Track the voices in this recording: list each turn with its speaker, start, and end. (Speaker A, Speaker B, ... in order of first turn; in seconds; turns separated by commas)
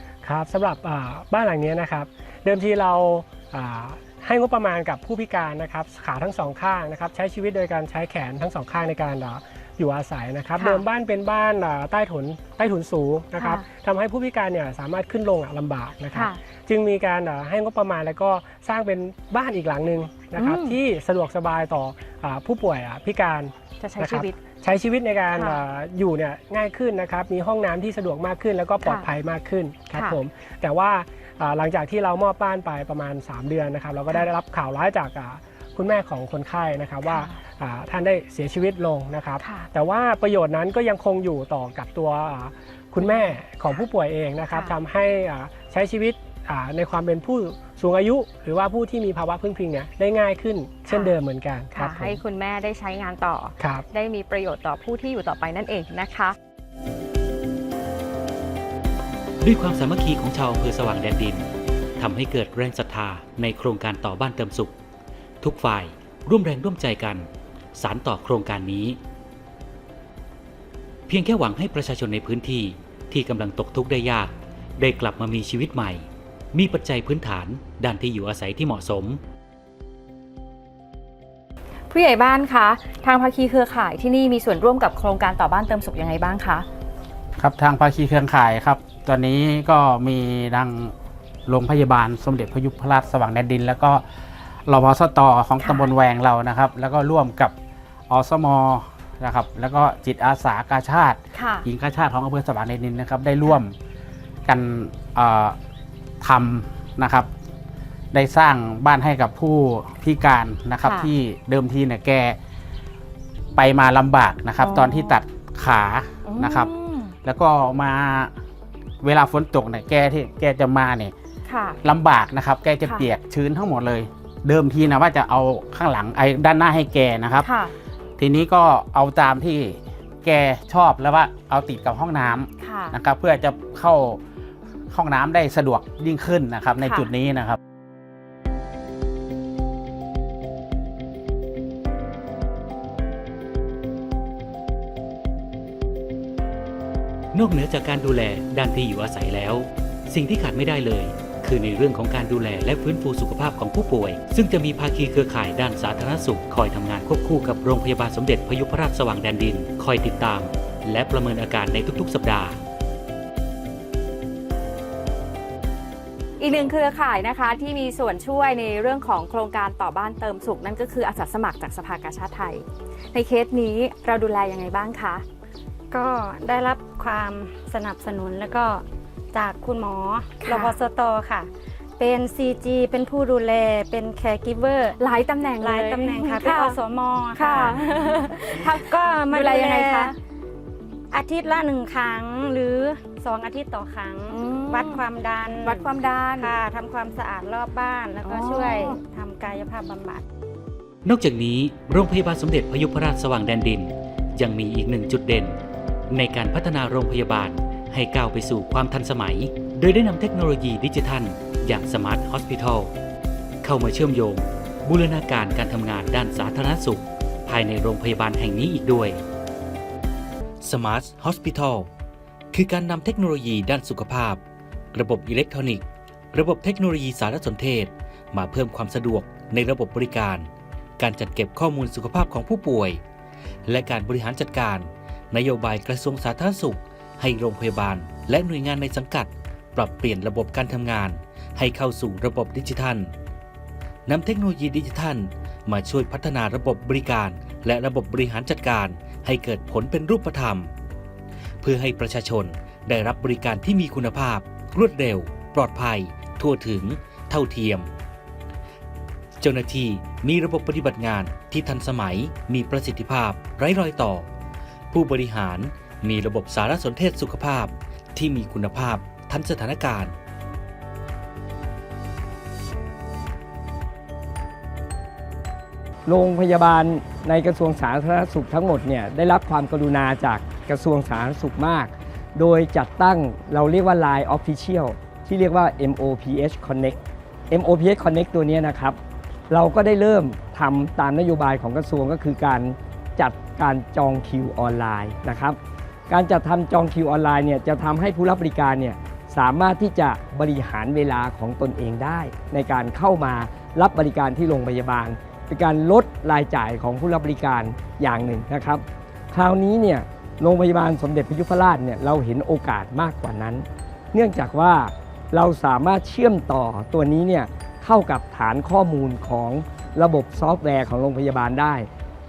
Speaker A: 0.2-52.2, Speaker B: 10.6-10.8, Speaker B: 13.4-13.7, Speaker B: 16.1-16.4, Speaker B: 20.4-20.8, Speaker B: 23.8-24.4, Speaker B: 25.3-25.6, Speaker B: 28.8-29.1, Speaker B: 29.9-30.2, Speaker B: 37.0-37.4, Speaker B: 39.4-39.7, Speaker B: 43.0-43.8, Speaker B: 44.5-44.8, Speaker B: 50.9-51.1, Speaker B: 51.7-56.4, Speaker C: 59.4-64.8, Speaker C: 65.4-69.0, Speaker C: 71.1-79.2, Speaker B: 81.9-86.7, Speaker D: 87.4-90.9, Speaker D: 91.5-94.0, Speaker D: 94.7-97.5, Speaker B: 95.6-95.9, Speaker D: 98.1-103.8, Speaker B: 101.3-101.7, Speaker D: 104.5-105.6, Speaker D: 106.2-107.3, Speaker D: 108.1-112.4, Speaker B: 110.8-111.1, Speaker D: 113.6-116.7, Speaker B: 114.6-115.2, Speaker B: 116.3-117.2, Speaker D: 117.2-118.3, Speaker D: 119.0-121.1, Speaker B: 121.5-121.8, Speaker D: 121.8-127.5, Speaker B: 122.8-123.1, Speaker B: 127.4-127.7, Speaker D: 128.2-134.2, Speaker B: 132.6-133.0, Speaker D: 134.9-137.6, Speaker B: 136.8-137.1, Speaker C: 147.3-162.6, Speaker B: 166.4-175.2, Speaker E: 175.9-185.0, Speaker B: 180.4-180.8, Speaker B: 185.0-186.8, Speaker E: 185.6-190.1, Speaker B: 187.3-190.2, Speaker E: 191.1-200.3, Speaker B: 194.3-195.1, Speaker B: 195.6-196.5, Speaker B: 198.2-199.0, Speaker C: 201.1-205.6, Speaker C: 206.1-212.9, Speaker C: 213.6-219.2, Speaker C: 220.6-221.9, Speaker C: 222.5-224.4, Speaker C: 224.9-230.5, Speaker C: 231.0-233.0, Speaker C: 233.7-243.1, Speaker C: 244.1-250.7, Speaker C: 251.6-257.9, Speaker C: 259.4-264.3, Speaker C: 264.9-270.1, Speaker F: 276.1-287.0, Speaker F: 287.5-289.0, Speaker F: 289.5-295.6, Speaker F: 296.1-321.9